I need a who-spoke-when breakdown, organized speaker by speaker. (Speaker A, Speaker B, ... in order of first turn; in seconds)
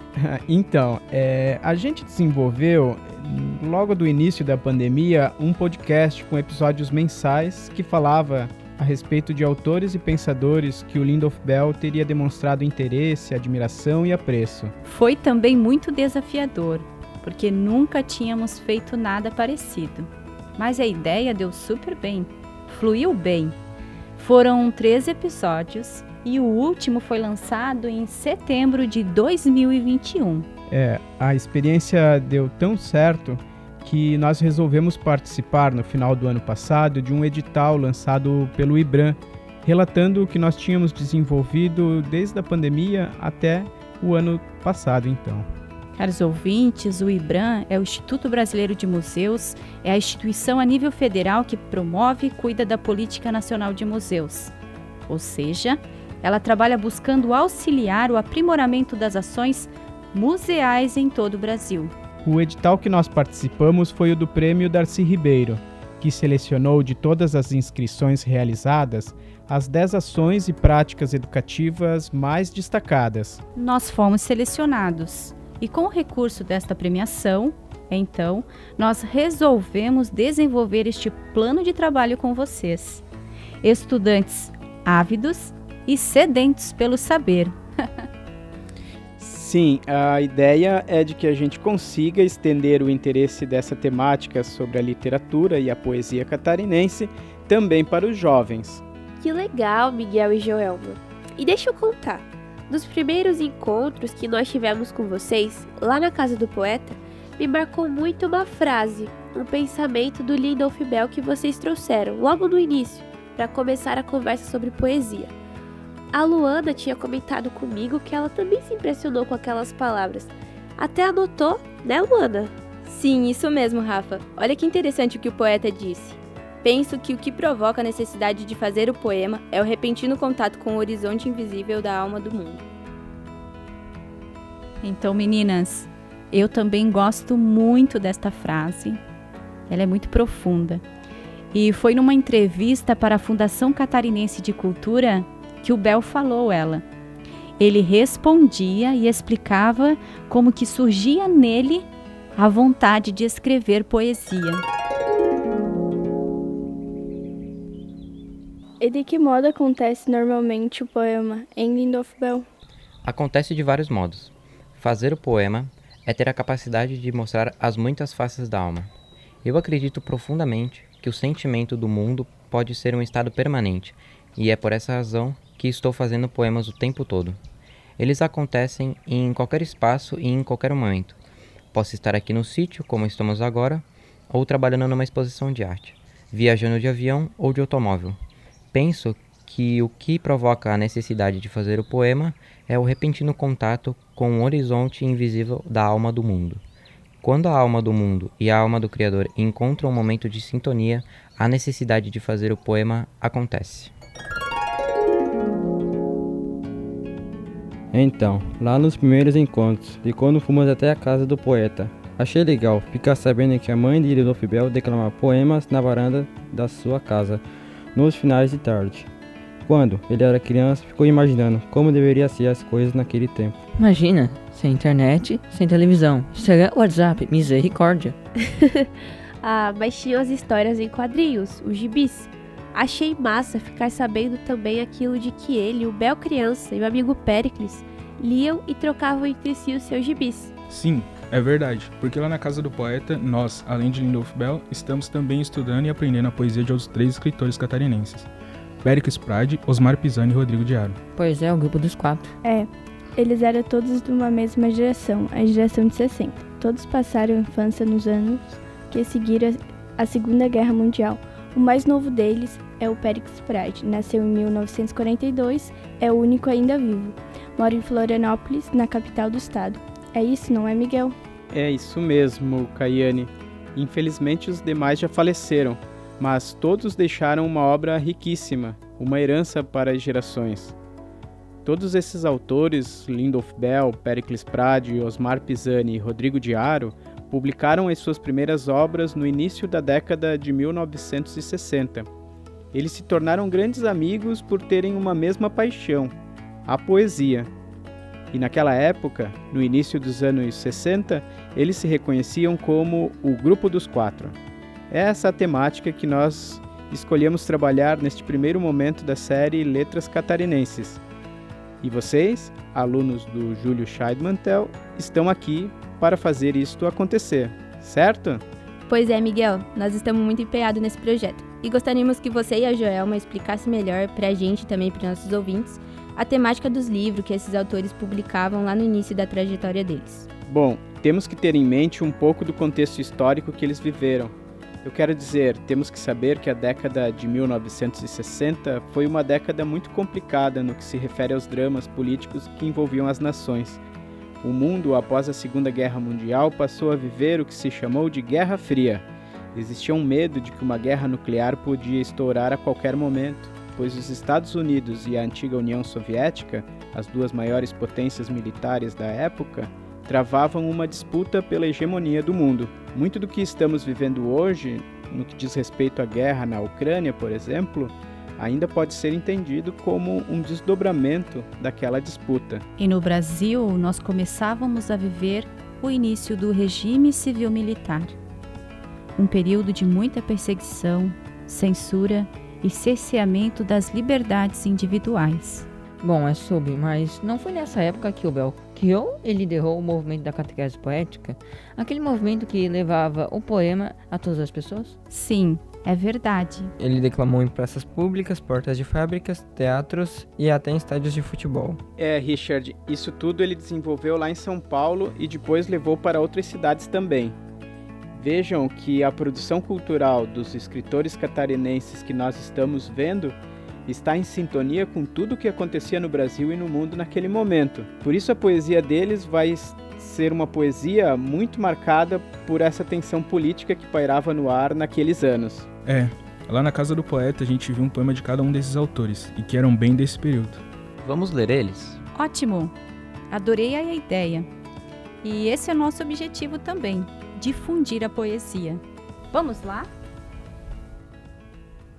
Speaker A: 0.2-14.8, 30.7-45.5, 62.2-73.4, 89.2-98.8, 271.5-280.8, 281.6-292.1, 292.7-297.5, 298.3-304.4, 304.9-311.0, 311.8-318.4, 330.5-343.8, 344.4-372.6, 402.0-407.4, 408.2-425.7
Speaker B: 14.8-23.6, 24.2-30.5, 46.0-54.5, 55.1-61.9, 73.6-83.0, 83.6-87.6, 134.8-139.0, 139.7-140.8, 141.5-146.8, 147.6-151.8, 152.4-154.6, 372.8-378.2, 379.2-385.7, 395.1-396.7, 432.1-432.7, 433.3-434.5, 435.2-439.9
Speaker C: 99.2-115.3, 116.1-122.5, 228.6-228.9, 229.4-240.5
Speaker D: 122.9-132.6, 318.9-330.3
Speaker E: 158.8-162.5, 252.4-271.1
Speaker F: 163.0-168.9, 169.4-177.4, 178.0-181.2, 181.7-188.2, 188.7-196.6, 197.2-203.9, 431.0-432.0
Speaker G: 207.9-217.4, 217.9-219.1, 219.7-223.6
Speaker H: 223.8-228.2, 251.2-252.3, 386.0-395.0
Speaker I: 240.7-248.3, 248.8-251.0, 425.9-430.6
Speaker J: 396.8-401.8